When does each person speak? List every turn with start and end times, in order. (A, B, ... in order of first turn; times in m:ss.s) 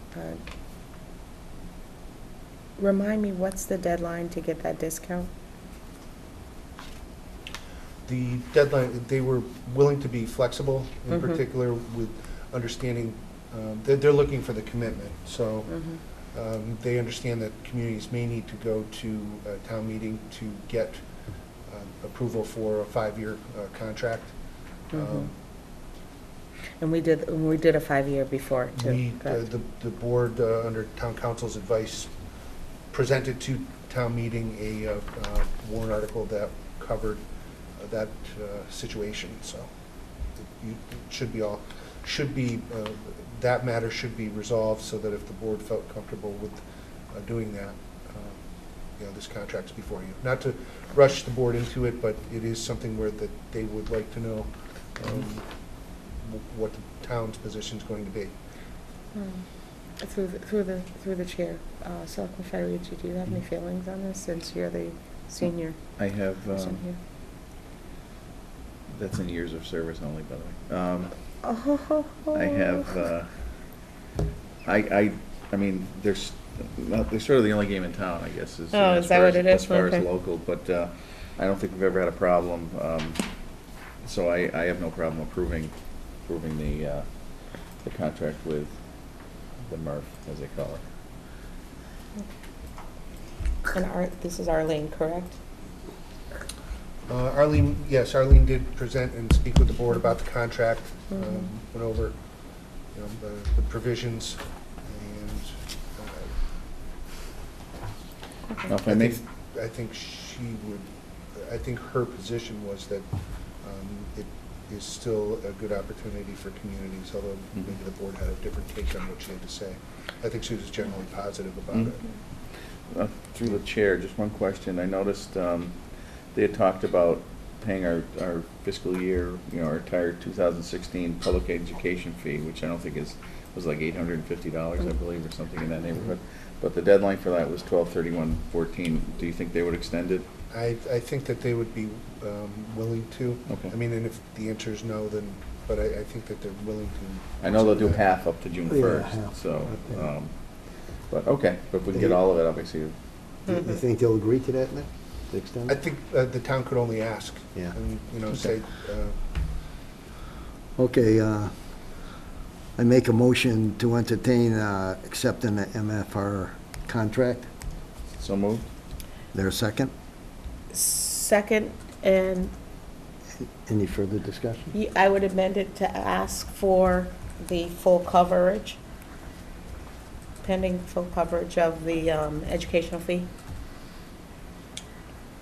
0:00.1-0:00.4 A
0:02.8-0:05.3 A
0:08.1-0:15.8 B
0:15.7-0:16.0 A
0:16.3-0:21.0 B
0:21.7-0:24.4 B
0:24.9-0:25.3 B
0:24.9-0:25.3 A
0:26.8-0:29.5 A
0:28.8-0:32.1 B
0:32.9-0:37.2 B
0:37.8-0:39.7 B
0:40.6-0:46.6 B
0:47.1-0:48.4 B
0:49.0-0:55.4 B
0:56.2-0:58.4 B
0:59.2-0:59.4 A
1:00.0-1:05.8 A
1:06.0-1:06.8 C
1:06.5-1:07.0 A
1:08.9-1:11.1 C
1:11.4-1:13.0 A
1:12.3-1:13.3 C
1:14.6-1:23.2 C
1:18.7-1:20.1 A
1:24.0-1:25.7 C
1:26.3-1:27.1 C
1:27.8-1:28.8 C
1:29.7-1:30.8 C
1:33.7-1:35.4 A
1:37.1-1:42.2 B
1:42.9-1:46.3 B
1:48.7-1:49.2 C
1:48.8-1:53.1 B
1:53.6-2:02.0 B
2:02.9-2:05.8 C
2:06.3-2:20.3 C
2:20.5-2:28.0 B
2:23.5-2:23.7 C
2:27.4-2:30.3 C
2:28.7-2:30.1 D
2:31.1-2:33.0 C
2:33.5-2:35.8 D
2:35.7-2:39.2 B
2:40.8-2:41.5 D
2:42.8-2:47.5 D
2:48.2-2:48.6 C
2:49.3-2:49.9 D
2:50.7-2:52.5 A
2:53.4-2:54.7 D
2:54.7-2:58.8 A
3:00.4-3:03.3 A